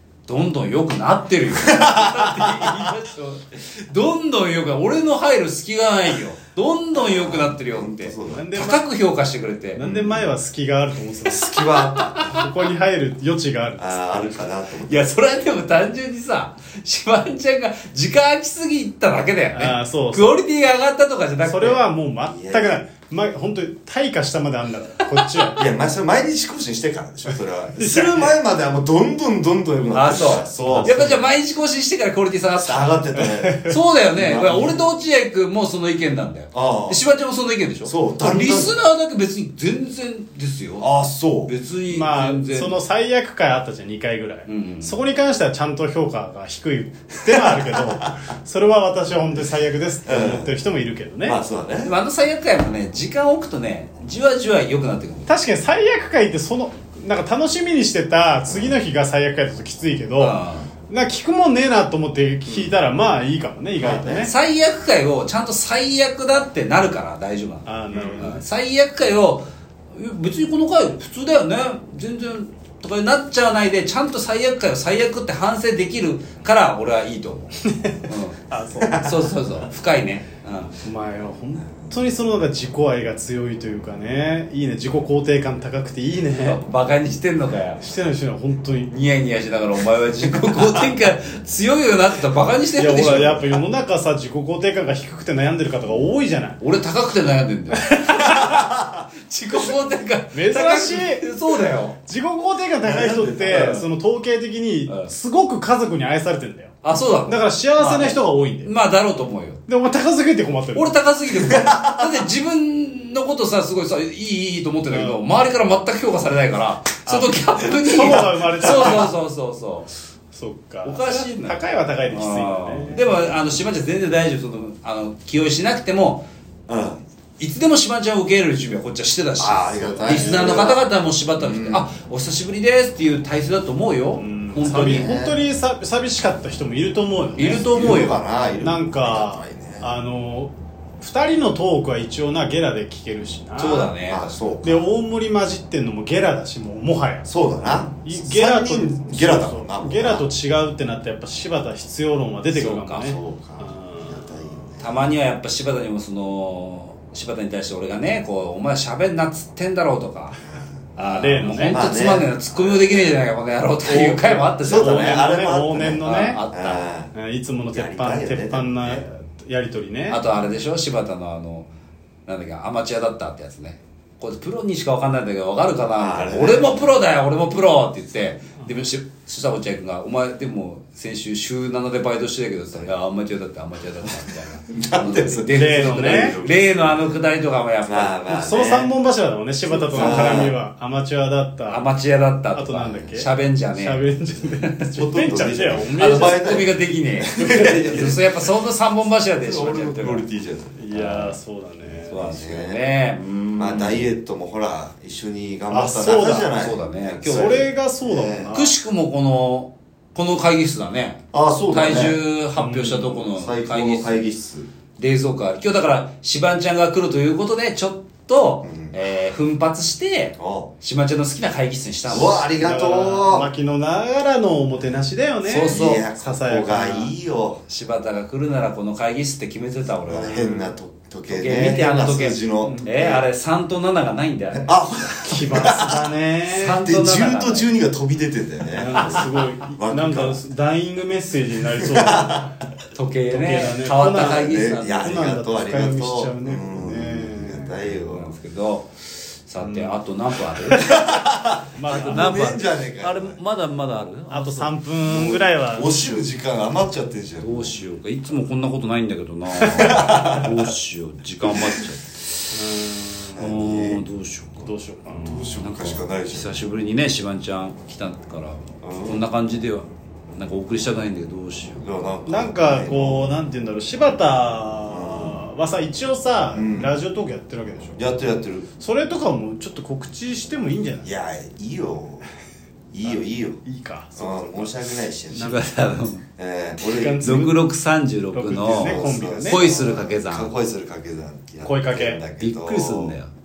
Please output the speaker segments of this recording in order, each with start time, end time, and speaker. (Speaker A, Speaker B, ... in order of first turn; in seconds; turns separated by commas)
Speaker A: 0.3-9.8, Speaker B: 1.5-2.9, Speaker B: 6.9-8.4, Speaker C: 8.3-8.8, Speaker C: 9.7-11.5, Speaker B: 9.8-10.3, Speaker B: 11.2-12.2, Speaker A: 12.0-12.4, Speaker C: 12.3-14.4, Speaker B: 13.8-15.1, Speaker A: 14.8-21.8, Speaker C: 19.5-20.4, Speaker C: 21.4-25.7, Speaker B: 22.2-22.8, Speaker A: 25.0-25.5, Speaker B: 25.6-31.1, Speaker C: 27.8-28.3, Speaker A: 29.9-33.1, Speaker C: 30.6-31.2, Speaker B: 32.6-34.8, Speaker C: 33.2-33.7, Speaker A: 33.6-40.9, Speaker B: 36.5-37.0, Speaker B: 37.9-38.8, Speaker B: 40.8-41.5, Speaker A: 41.5-42.8, Speaker C: 41.9-51.4, Speaker A: 44.5-45.0, Speaker B: 47.3-48.1, Speaker B: 50.0-50.5, Speaker B: 51.2-51.9, Speaker A: 51.8-55.3, Speaker C: 55.3-60.3, Speaker A: 60.2-60.7, Speaker C: 60.9-64.3, Speaker B: 63.8-64.3, Speaker A: 64.1-78.4, Speaker C: 67.6-68.4, Speaker B: 67.9-68.3, Speaker C: 77.7-79.0, Speaker B: 78.8-79.2, Speaker A: 78.9-80.8, Speaker C: 80.8-86.6, Speaker A: 86.4-87.8, Speaker C: 87.8-88.9, Speaker A: 88.9-93.5, Speaker B: 90.5-90.9, Speaker C: 92.7-96.6, Speaker A: 96.6-102.0, Speaker B: 98.3-99.0, Speaker C: 100.3-101.2, Speaker C: 102.0-106.7, Speaker B: 102.8-103.8, Speaker A: 103.5-103.9, Speaker A: 106.8-109.6, Speaker C: 107.3-108.7, Speaker C: 109.7-110.9, Speaker A: 110.7-119.9, Speaker B: 111.3-112.3, Speaker C: 114.9-115.2, Speaker C: 117.0-119.1, Speaker C: 120.3-123.1, Speaker A: 120.8-126.2, Speaker B: 126.7-127.0, Speaker A: 127.4-135.1, Speaker B: 129.4-130.8, Speaker C: 129.8-130.7, Speaker B: 131.4-131.9, Speaker C: 134.2-143.9, Speaker B: 134.6-135.4, Speaker A: 137.4-138.2, Speaker B: 137.7-139.9, Speaker A: 143.6-144.3, Speaker B: 144.1-144.9, Speaker C: 144.6-147.3, Speaker B: 147.2-150.2, Speaker C: 147.9-154.3, Speaker A: 152.5-153.2, Speaker B: 153.0-155.1, Speaker A: 154.8-160.4, Speaker A: 160.9-165.2, Speaker C: 161.0-161.8, Speaker B: 161.7-163.2, Speaker B: 163.8-167.1, Speaker C: 164.7-166.4, Speaker A: 166.0-166.8, Speaker C: 167.1-170.2, Speaker B: 167.7-169.0, Speaker A: 170.1-171.7, Speaker A: 172.2-188.2, Speaker B: 176.0-176.9, Speaker B: 184.7-187.2, Speaker C: 185.5-186.3, Speaker B: 187.8-188.9, Speaker C: 188.3-191.9, Speaker A: 189.7-190.4, Speaker B: 189.9-190.6, Speaker A: 191.7-194.9, Speaker C: 192.5-196.4, Speaker B: 194.9-198.3, Speaker A: 195.9-200.2, Speaker C: 197.3-198.1, Speaker B: 199.4-200.8, Speaker C: 200.8-202.2, Speaker A: 200.9-201.4, Speaker A: 202.1-204.0, Speaker B: 202.1-202.8, Speaker B: 203.6-208.6, Speaker C: 205.7-206.5, Speaker A: 206.5-207.6, Speaker C: 207.2-208.7, Speaker A: 208.5-214.2, Speaker B: 211.3-212.2, Speaker C: 212.6-213.1, Speaker B: 213.0-214.7, Speaker A: 215.0-222.4, Speaker B: 218.6-219.0, Speaker B: 220.4-220.7, Speaker B: 222.1-223.5, Speaker C: 222.6-227.1, Speaker A: 225.4-226.0, Speaker B: 225.7-227.6, Speaker A: 227.7-230.4, Speaker B: 230.0-233.2, Speaker C: 230.3-230.7, Speaker A: 231.3-234.7, Speaker C: 232.6-232.9, Speaker B: 234.5-236.1, Speaker C: 235.2-236.8, Speaker A: 236.4-237.7, Speaker B: 236.8-240.4, Speaker C: 238.8-242.5, Speaker A: 238.9-239.3, Speaker B: 241.8-242.5, Speaker A: 242.9-245.2, Speaker C: 243.3-247.7, Speaker B: 244.1-248.3, Speaker A: 247.8-250.9, Speaker C: 249.6-250.0, Speaker B: 250.7-253.4, Speaker C: 251.7-252.4, Speaker A: 251.8-254.8, Speaker C: 254.3-256.2, Speaker B: 255.0-257.8, Speaker A: 257.4-262.6, Speaker B: 259.6-260.6, Speaker C: 259.6-259.9, Speaker C: 262.5-263.5, Speaker B: 263.3-264.0, Speaker A: 263.4-264.7, Speaker C: 264.6-265.5, Speaker B: 265.1-266.6, Speaker A: 265.6-271.8, Speaker B: 268.8-269.2, Speaker B: 271.8-273.4, Speaker C: 272.3-278.0, Speaker B: 274.9-275.4, Speaker B: 276.5-276.9, Speaker B: 277.9-278.7, Speaker C: 278.8-281.1, Speaker B: 281.0-282.3, Speaker B: 282.9-283.6, Speaker C: 283.1-284.7, Speaker B: 284.1-285.6, Speaker A: 285.3-286.2, Speaker C: 285.3-285.6, Speaker B: 286.4-287.3, Speaker C: 286.8-287.5, Speaker A: 287.2-290.5, Speaker C: 288.3-289.7, Speaker B: 288.8-293.2, Speaker C: 291.6-292.2, Speaker A: 292.4-293.3